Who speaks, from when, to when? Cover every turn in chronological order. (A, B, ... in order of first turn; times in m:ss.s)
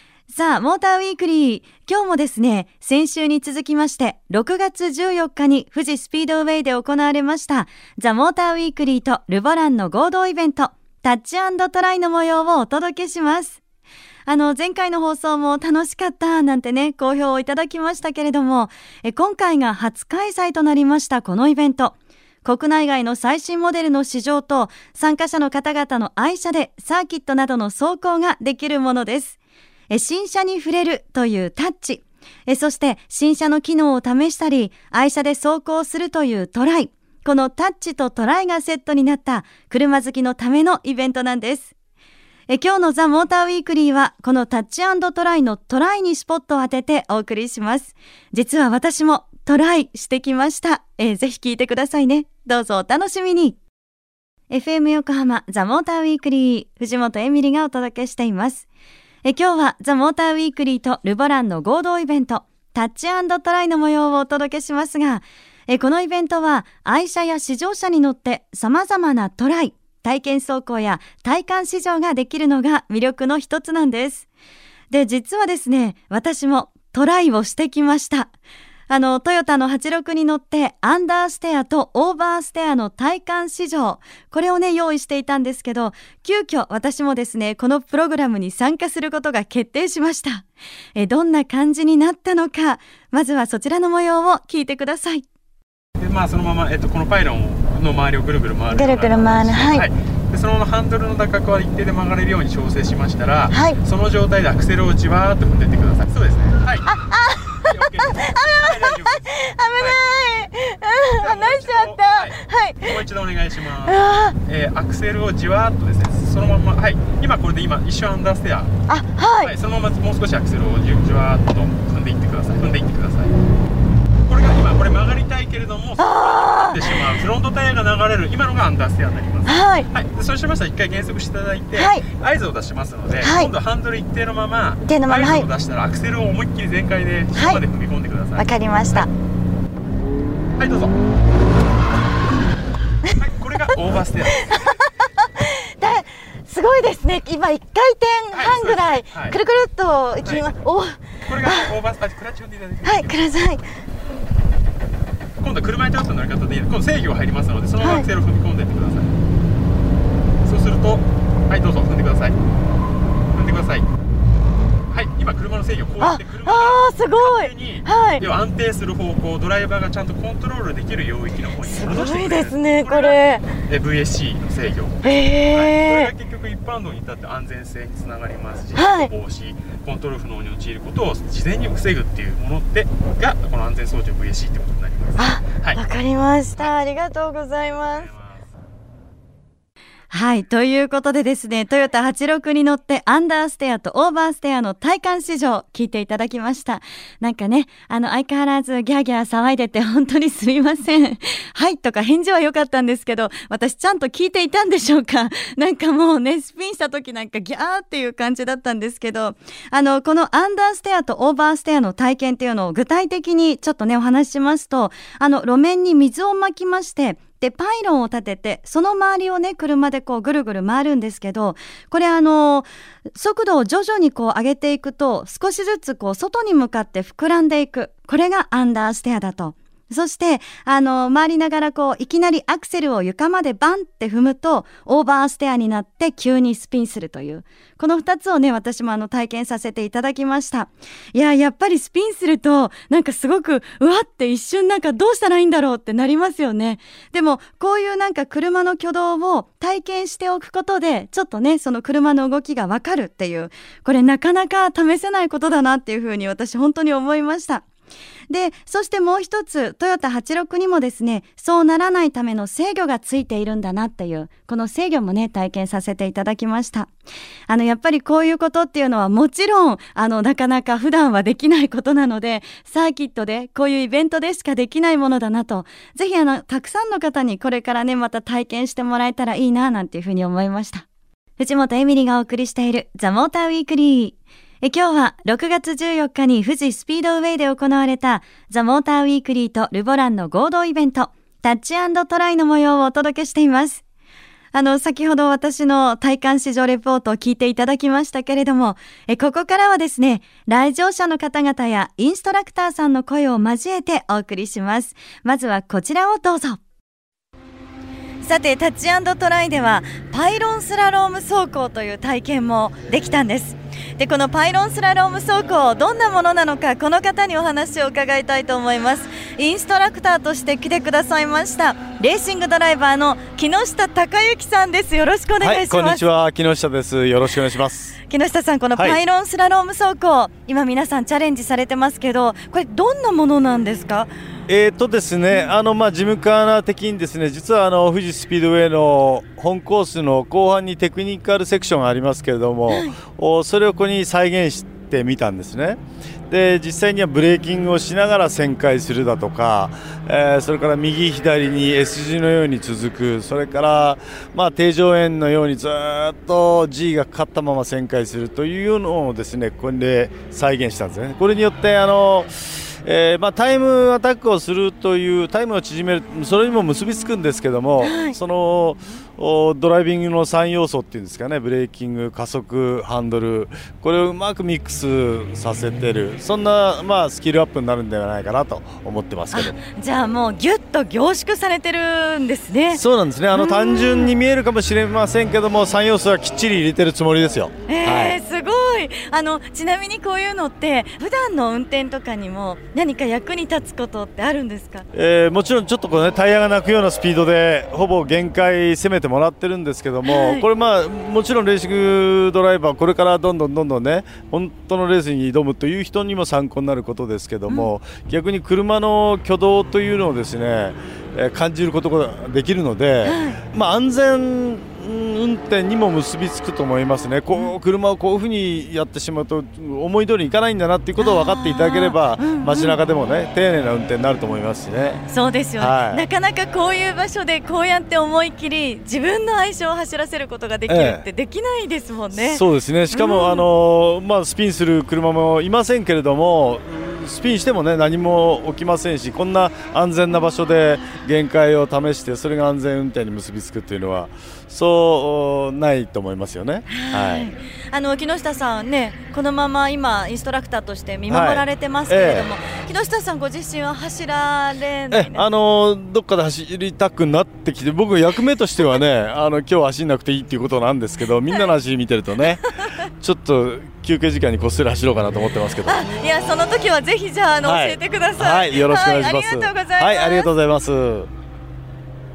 0:00.3-0:13.6 A
0:14.3-0:29.4 A
0:29.9-0:41.7 A
0:42.5-0:53.6 A
0:54.5-0:58.7 A
0:59.2-1:14.3 A
1:14.9-1:18.3 A
1:18.9-1:35.2 A
1:36.0-1:47.0 B
1:38.7-1:39.9 A
1:43.5-1:43.8 A
1:46.8-1:53.0 A
1:47.6-1:50.0 B
1:51.2-1:58.7 B
1:53.8-1:54.4 A
1:58.9-1:59.5 A
1:59.4-2:03.3 B
2:04.3-2:19.1 B
2:06.0-2:07.0 A
2:09.4-2:09.9 A
2:11.7-2:12.0 A
2:13.2-2:13.5 A
2:14.8-2:15.5 A
2:17.3-2:17.6 A
2:18.3-2:19.1 A
2:20.6-2:20.9 B
2:23.2-2:24.8 B
2:24.3-2:24.9 A
2:25.4-2:31.7 A
2:28.3-2:29.4 B
2:30.2-2:30.5 B
2:31.2-2:33.3 B
2:32.8-2:33.6 A
2:35.4-2:39.1 B
2:37.8-2:38.1 A
2:40.4-2:42.4 B
2:43.3-2:43.9 B
2:44.9-3:05.8 B
2:46.0-2:48.2 A
2:51.6-2:53.5 A
2:55.0-2:56.1 A
2:58.7-2:59.1 A
3:05.2-3:08.1 A
3:07.8-3:08.5 B
3:10.1-4:17.6 A
4:18.3-4:26.9 A
4:27.5-4:40.8 A
4:41.4-4:53.8 A
4:54.5-5:06.6 A
5:08.2-5:26.0 A
5:25.4-5:28.0 C
5:28.1-5:34.1 A
5:34.5-6:19.6 C
5:42.7-5:42.9 A
6:07.8-6:08.1 A
6:19.3-6:22.8 A
6:22.7-6:28.2 C
6:23.3-6:24.1 A
6:27.7-6:34.9 A
6:34.9-7:05.0 C
6:40.0-6:40.4 A
6:53.0-6:53.4 A
7:01.0-7:02.8 A
7:05.1-7:13.4 A
7:05.6-7:06.0 C
7:10.7-7:11.0 C
7:12.1-7:27.3 C
7:26.7-7:35.2 A
7:31.1-7:32.3 C
7:34.9-7:42.4 C
7:43.0-7:45.9 C
7:45.6-7:50.3 A
7:47.4-7:51.1 C